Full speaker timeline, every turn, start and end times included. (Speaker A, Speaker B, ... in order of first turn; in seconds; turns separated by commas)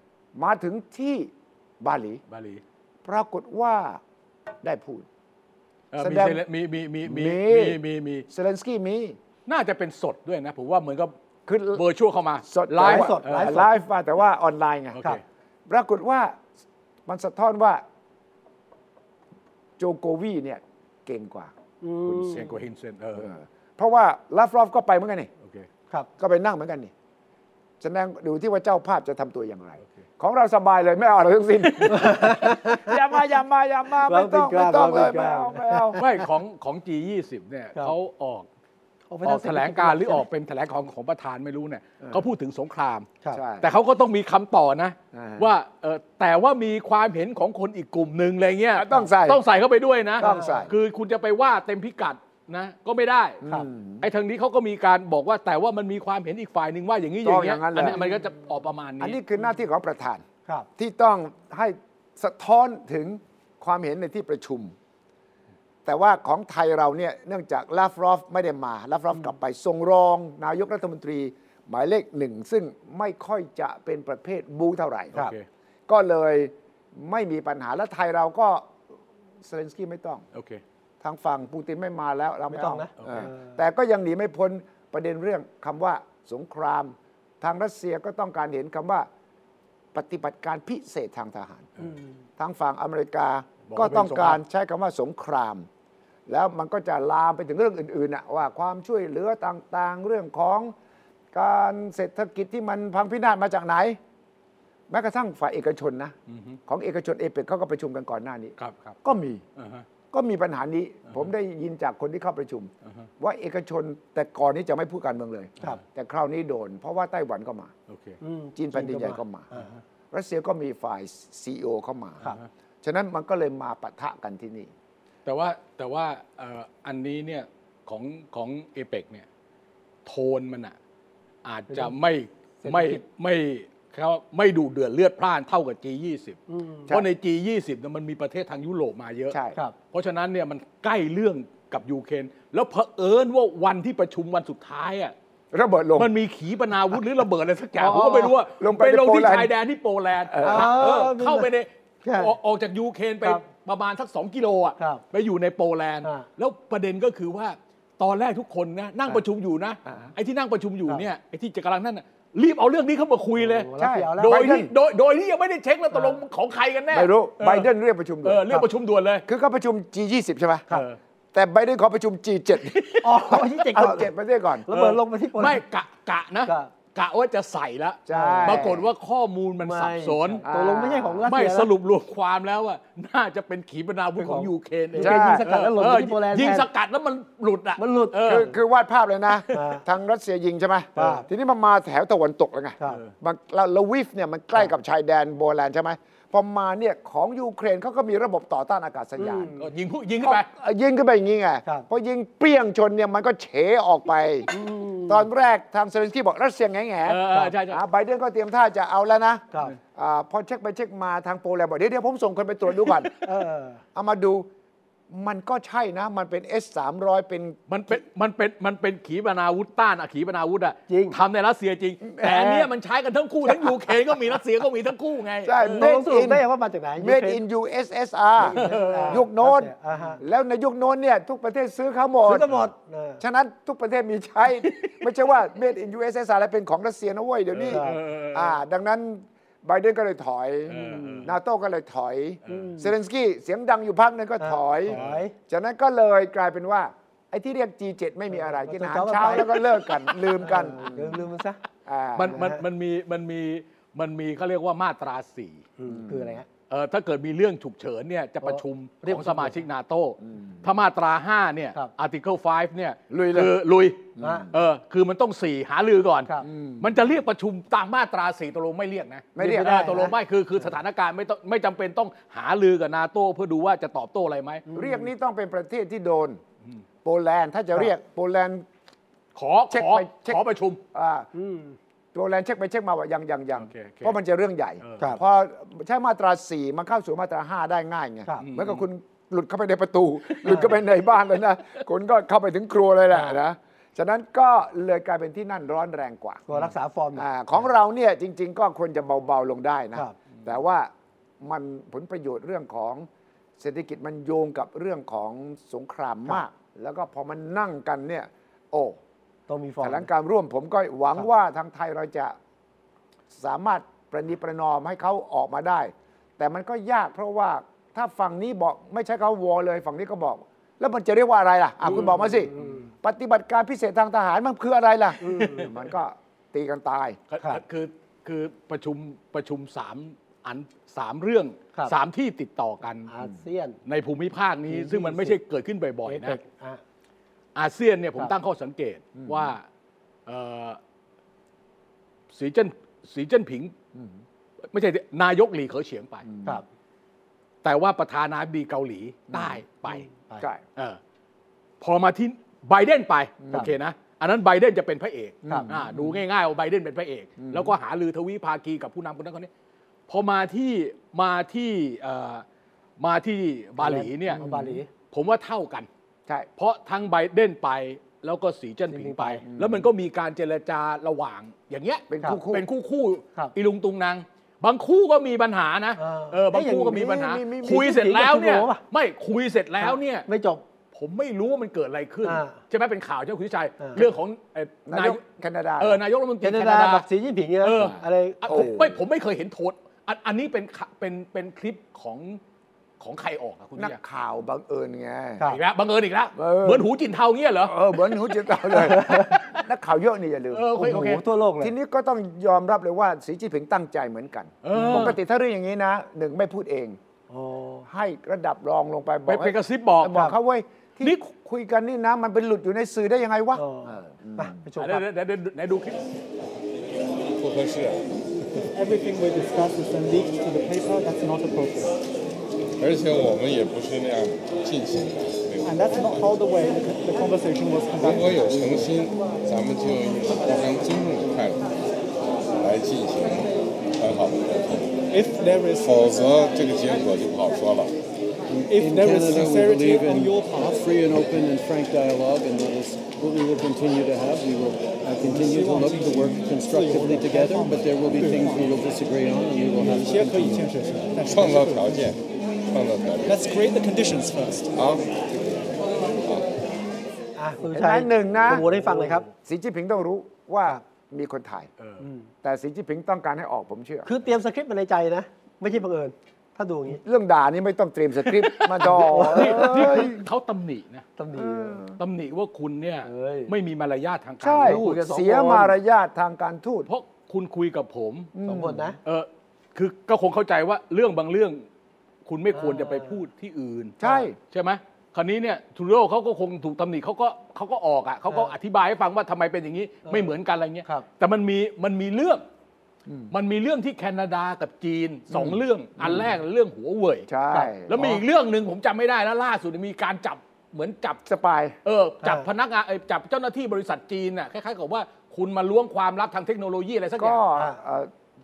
Speaker A: 0.3-2.2, Speaker B: 2.3-2.6, Speaker A: 3.1-4.0, Speaker A: 4.6-5.1, Speaker B: 5.9-8.3, Speaker A: 6.0-6.4, Speaker A: 7.0-9.2, Speaker B: 9.5-11.1, Speaker A: 11.5-11.8, Speaker B: 11.8-13.7, Speaker A: 12.5-15.0, Speaker C: 12.8-13.7, Speaker B: 14.9-15.2, Speaker A: 15.7-16.4, Speaker A: 17.1-17.8, Speaker A: 19.8-21.5, Speaker C: 21.8-22.6, Speaker B: 22.1-23.3, Speaker A: 23.2-25.3, Speaker A: 26.2-26.9, Speaker A: 27.8-36.0, Speaker C: 31.9-32.9, Speaker C: 34.1-36.0, Speaker B: 36.0-38.5, Speaker C: 39.1-40.2, Speaker B: 39.2-43.1, Speaker A: 43.3-43.7, Speaker B: 43.6-53.4, Speaker A: 45.1-45.5, Speaker A: 48.8-49.4, Speaker A: 50.2-50.8, Speaker C: 50.2-50.6, Speaker A: 53.4-54.1, Speaker B: 54.0-59.2, Speaker A: 57.2-58.0, Speaker A: 59.0-60.2, Speaker A: 60.8-64.7, Speaker A: 65.8-75.2, Speaker B: 75.2-75.4, Speaker A: 75.9-78.8, Speaker A: 79.4-80.2, Speaker B: 80.3-80.6, Speaker A: 81.0-89.1, Speaker C: 82.5-83.6, Speaker B: 83.0-83.3, Speaker A: 89.9-91.7, Speaker A: 92.4-95.7, Speaker B: 93.7-94.4, Speaker A: 96.3-100.8, Speaker A: 101.3-104.0, Speaker A: 104.9-106.2, Speaker B: 106.3-106.6, Speaker A: 106.7-109.4, Speaker B: 108.6-109.0, Speaker B: 109.6-109.9, Speaker A: 110.1-117.7, Speaker B: 117.9-118.2, Speaker C: 118.2-119.7, Speaker A: 118.6-119.5, Speaker A: 120.1-122.2, Speaker A: 122.8-124.7, Speaker B: 125.3-129.3, Speaker B: 130.1-130.8, Speaker B: 131.4-139.4, Speaker C: 131.7-132.0, Speaker C: 132.6-133.0, Speaker C: 136.5-136.9, Speaker A: 139.3-139.6, Speaker B: 139.9-145.1, Speaker A: 145.5-146.1, Speaker B: 146.0-167.7, Speaker C: 147.8-148.3, Speaker A: 148.6-149.5, Speaker A: 150.3-151.0, Speaker C: 150.4-151.5, Speaker C: 152.0-152.3, Speaker A: 159.9-160.1, Speaker C: 163.4-164.6, Speaker A: 163.8-164.7, Speaker C: 165.9-166.2, Speaker A: 166.9-168.5, Speaker B: 168.2-169.2, Speaker A: 169.3-170.7, Speaker B: 170.7-171.0, Speaker A: 171.3-174.7, Speaker B: 172.6-173.8, Speaker C: 173.0-174.1, Speaker C: 174.7-175.6, Speaker B: 174.7-180.4, Speaker C: 176.4-176.7, Speaker A: 178.1-178.9, Speaker C: 178.1-178.7, Speaker C: 179.6-181.7, Speaker A: 180.4-181.3, Speaker B: 181.3-188.5, Speaker C: 184.2-186.7, Speaker A: 185.0-185.5, Speaker C: 187.8-188.5, Speaker A: 188.2-199.5, Speaker C: 189.5-189.8, Speaker C: 191.0-191.3, Speaker B: 192.8-193.1, Speaker C: 199.2-199.6, Speaker B: 199.6-200.5, Speaker A: 200.2-204.5, Speaker C: 204.5-205.2, Speaker A: 205.1-213.1, Speaker B: 207.1-207.8, Speaker C: 213.2-213.8, Speaker A: 213.9-214.5, Speaker A: 215.1-217.6, Speaker B: 217.7-225.9, Speaker C: 220.9-221.2, Speaker A: 222.1-222.7, Speaker A: 223.5-224.0, Speaker A: 225.4-226.4, Speaker C: 225.7-227.4, Speaker A: 227.0-232.5, Speaker C: 228.4-230.2, Speaker B: 228.5-229.2, Speaker C: 232.3-233.2, Speaker A: 233.2-245.0, Speaker B: 234.6-234.9, Speaker B: 237.5-238.6, Speaker C: 237.7-238.0, Speaker B: 240.7-241.3, Speaker C: 242.5-242.9, Speaker C: 244.4-245.3, Speaker B: 244.9-245.2, Speaker A: 245.5-251.2, Speaker C: 248.3-249.6, Speaker C: 250.4-251.6, Speaker A: 251.9-252.4, Speaker B: 252.2-255.6, Speaker C: 252.3-252.6, Speaker C: 255.8-256.5, Speaker A: 255.9-256.4, Speaker B: 256.7-274.6, Speaker C: 258.4-259.6, Speaker A: 260.3-260.6, Speaker A: 263.1-263.5, Speaker A: 264.2-264.5, Speaker C: 264.2-264.5, Speaker A: 266.4-267.0, Speaker A: 269.4-270.1, Speaker C: 269.4-270.1, Speaker C: 274.7-275.1, Speaker A: 274.7-276.4, Speaker A: 277.0-278.6, Speaker B: 279.4-280.8, Speaker A: 279.7-280.4, Speaker A: 280.9-281.3, Speaker C: 281.3-281.8, Speaker A: 282.1-296.4, Speaker B: 283.6-284.2, Speaker B: 284.8-285.2, Speaker B: 288.4-288.9, Speaker B: 290.3-290.7, Speaker C: 296.5-297.3, Speaker A: 297.1-303.1, Speaker A: 303.6-309.0, Speaker C: 309.5-310.1, Speaker A: 309.8-312.4, Speaker A: 313.3-327.2, Speaker C: 321.9-322.9, Speaker B: 322.6-322.9, Speaker C: 325.2-325.7, Speaker B: 325.2-325.8, Speaker B: 327.3-333.1, Speaker C: 333.1-333.8, Speaker B: 333.9-336.4, Speaker C: 334.7-335.4, Speaker C: 336.1-336.8, Speaker B: 337.6-339.6, Speaker A: 339.2-339.5, Speaker B: 340.3-340.8, Speaker B: 342.3-343.7, Speaker B: 344.7-346.3, Speaker A: 346.3-346.6, Speaker B: 347.6-350.1, Speaker A: 349.3-349.6, Speaker C: 349.9-350.4, Speaker B: 351.8-359.5, Speaker A: 355.5-356.2, Speaker A: 357.4-357.7, Speaker B: 360.1-362.4, Speaker B: 363.0-364.4, Speaker C: 363.8-364.9, Speaker A: 364.4-364.8, Speaker B: 365.0-365.9, Speaker B: 366.6-380.3, Speaker C: 368.9-369.4, Speaker A: 369.5-369.9, Speaker A: 372.1-372.7, Speaker C: 376.0-378.8, Speaker A: 376.9-377.9, Speaker C: 379.8-380.6, Speaker B: 380.9-385.2, Speaker C: 382.2-382.6, Speaker A: 384.9-386.0, Speaker B: 385.8-387.1, Speaker C: 386.4-388.8, Speaker B: 387.6-392.4, Speaker A: 388.5-389.0, Speaker B: 393.0-394.0, Speaker A: 393.8-395.4, Speaker B: 395.5-398.4, Speaker A: 396.4-396.9, Speaker A: 397.6-407.0, Speaker C: 398.8-399.3, Speaker B: 398.9-399.6, Speaker B: 400.5-401.2, Speaker C: 400.8-401.7, Speaker B: 404.6-405.2, Speaker C: 404.7-405.1, Speaker C: 407.3-407.9, Speaker A: 407.9-414.6, Speaker B: 409.3-410.2, Speaker C: 413.6-415.1, Speaker B: 414.8-416.0, Speaker D: 417.4-418.1, Speaker E: 418.7-422.0, Speaker D: 422.8-426.3, Speaker E: 425.6-428.9, Speaker D: 428.0-431.6, Speaker D: 432.6-434.9, Speaker E: 435.1-436.1, Speaker D: 435.8-438.0, Speaker F: 438.5-450.8, Speaker E: 438.7-440.9, Speaker E: 445.2-448.7, Speaker E: 449.8-452.1, Speaker D: 451.2-453.3, Speaker E: 453.3-454.8, Speaker D: 454.8-455.6, Speaker D: 456.2-456.5, Speaker C: 457.4-459.2, Speaker A: 457.7-458.7, Speaker B: 458.5-459.3, Speaker A: 459.4-461.7, Speaker B: 461.8-462.1, Speaker C: 462.0-462.3, Speaker A: 462.4-464.1, Speaker C: 464.1-467.0, Speaker A: 466.9-470.2, Speaker B: 468.4-471.1, Speaker C: 468.8-470.1, Speaker C: 471.2-471.8, Speaker A: 471.4-472.0, Speaker B: 472.0-475.0, Speaker C: 473.1-473.5, Speaker A: 474.4-476.9, Speaker C: 474.6-475.8, Speaker B: 476.9-478.3, Speaker A: 478.3-478.9, Speaker C: 478.4-479.0, Speaker B: 479.1-481.6, Speaker B: 482.3-492.4, Speaker C: 482.6-483.1, Speaker A: 484.0-484.4, Speaker C: 490.1-490.3, Speaker A: 493.1-493.3, Speaker B: 493.3-497.3, Speaker A: 495.3-496.3, Speaker A: 497.3-498.1, Speaker C: 497.5-498.2, Speaker B: 497.9-501.2, Speaker A: 501.3-501.8, Speaker B: 501.9-507.4, Speaker A: 507.2-508.1